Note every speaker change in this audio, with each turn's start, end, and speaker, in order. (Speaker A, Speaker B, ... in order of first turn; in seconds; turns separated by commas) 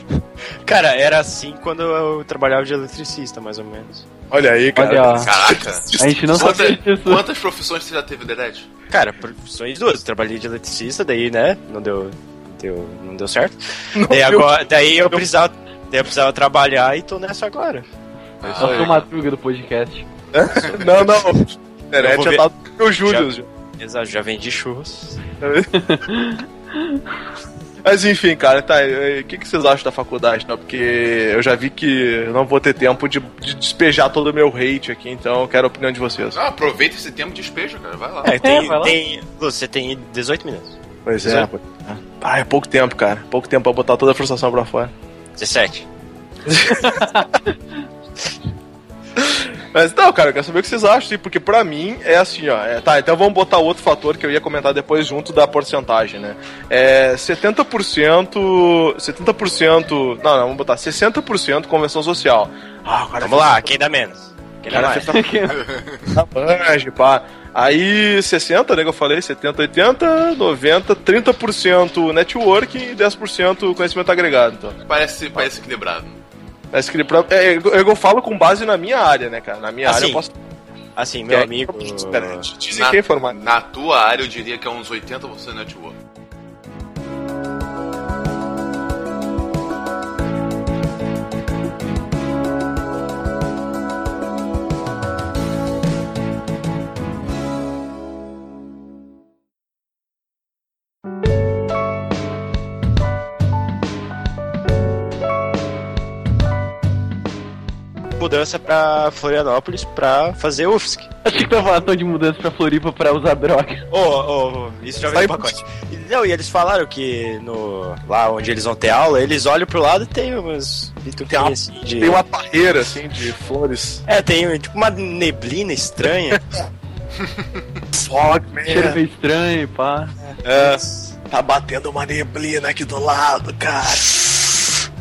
Speaker A: 0.1-4.1, Speaker B: 4.3-6.7, Speaker C: 4.7-5.3, Speaker D: 5.1-8.7, Speaker C: 6.0-7.2, Speaker A: 8.9-17.9, Speaker B: 13.9-15.2, Speaker D: 18.4-19.0, Speaker A: 18.4-18.9, Speaker B: 18.6-18.9, Speaker C: 18.6-20.1, Speaker B: 20.3-23.5, Speaker D: 20.6-21.1, Speaker A: 22.0-22.5, Speaker A: 23.0-25.2, Speaker B: 25.4-25.7, Speaker C: 25.7-27.0, Speaker B: 27.8-36.4, Speaker D: 36.3-38.4, Speaker A: 38.2-41.5, Speaker C: 38.4-39.0, Speaker B: 41.0-44.9, Speaker A: 45.4-45.9, Speaker B: 46.5-47.3, Speaker C: 46.8-47.2, Speaker B: 49.2-63.7, Speaker A: 63.2-65.2, Speaker B: 64.7-65.2, Speaker C: 65.0-65.6, Speaker D: 65.5-66.1, Speaker B: 66.1-74.8, Speaker D: 74.9-76.2, Speaker B: 76.7-80.3, Speaker A: 79.8-80.2, Speaker A: 81.0-82.5, Speaker B: 81.3-83.4, Speaker D: 82.7-86.0, Speaker A: 108.2-111.1, Speaker C: 111.2-113.9, Speaker A: 113.9-122.2, Speaker B: 115.1-115.5, Speaker B: 121.3-124.0, Speaker A: 124.0-126.4, Speaker B: 127.9-129.0, Speaker C: 128.7-130.1, Speaker A: 130.2-131.1, Speaker B: 130.4-134.6